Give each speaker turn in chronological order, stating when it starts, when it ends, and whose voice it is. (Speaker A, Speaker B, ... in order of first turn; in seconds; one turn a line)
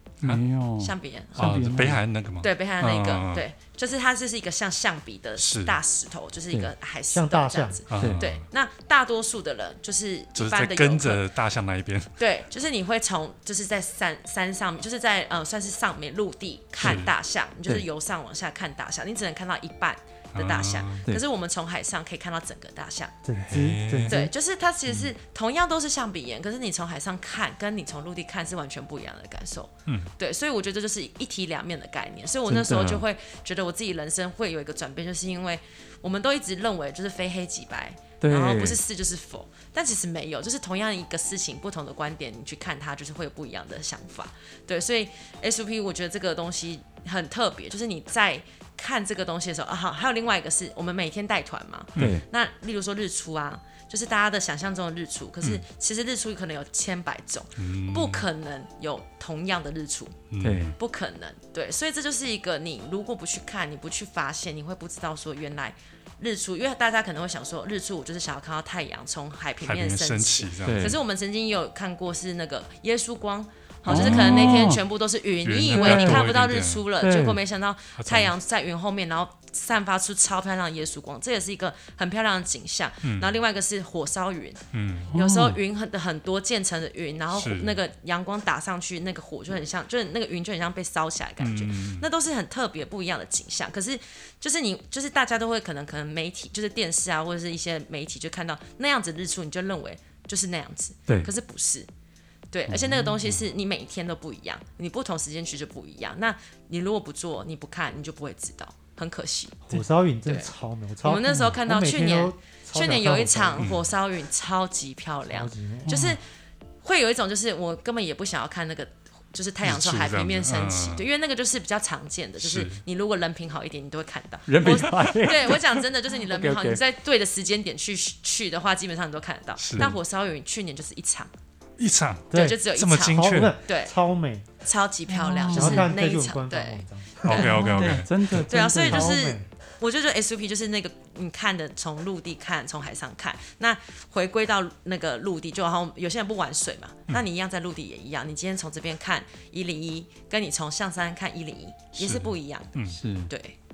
Speaker A: 0.2-2.0
Speaker B: 0.8-1.6
Speaker C: 1.4-3.5
Speaker B: 2.4-11.2
Speaker C: 5.4-5.8
Speaker D: 7.1-7.8
Speaker C: 7.9-8.4
Speaker A: 8.0-8.2
Speaker C: 10.4-12.1
Speaker B: 12.2-23.2
Speaker C: 16.8-17.1
Speaker C: 20.3-21.1
Speaker D: 23.2-24.3
Speaker C: 23.5-24.2
Speaker B: 24.1-60.2
Speaker A: 24.9-25.1
Speaker C: 29.9-30.1
Speaker A: 32.5-33.0
Speaker A: 38.2-38.8
Speaker A: 52.0-52.2
Speaker C: 57.6-58.2
Speaker C: 60.3-60.7
Speaker A: 60.4-60.8
Speaker B: 60.8-101.9
Speaker C: 69.6-71.0
Speaker A: 70.6-71.0
Speaker C: 73.9-74.8
Speaker A: 73.9-74.8
Speaker C: 75.4-76.9
Speaker A: 75.7-76.3
Speaker A: 77.0-77.4
Speaker C: 78.0-78.3
Speaker C: 83.0-83.4
Speaker C: 84.7-85.1
Speaker A: 85.1-85.6
Speaker C: 87.3-87.8
Speaker C: 91.4-92.1
Speaker B: 102.5-109.8
Speaker A: 102.7-103.4
Speaker D: 109.7-113.7
Speaker B: 110.3-116.3
Speaker C: 113.6-113.9
Speaker D: 115.3-116.0
Speaker A: 115.9-116.2
Speaker B: 116.8-131.3
Speaker C: 119.6-121.0
Speaker C: 122.4-122.8
Speaker A: 124.5-126.8
Speaker C: 129.6-129.9
Speaker C: 131.8-133.6
Speaker D: 132.3-134.5
Speaker B: 132.3-133.9
Speaker B: 134.6-153.6
Speaker A: 135.1-135.9
Speaker D: 135.5-137.9
Speaker C: 137.2-138.5
Speaker A: 137.3-139.1
Speaker D: 138.8-139.5
Speaker C: 151.9-153.0
Speaker A: 152.9-153.3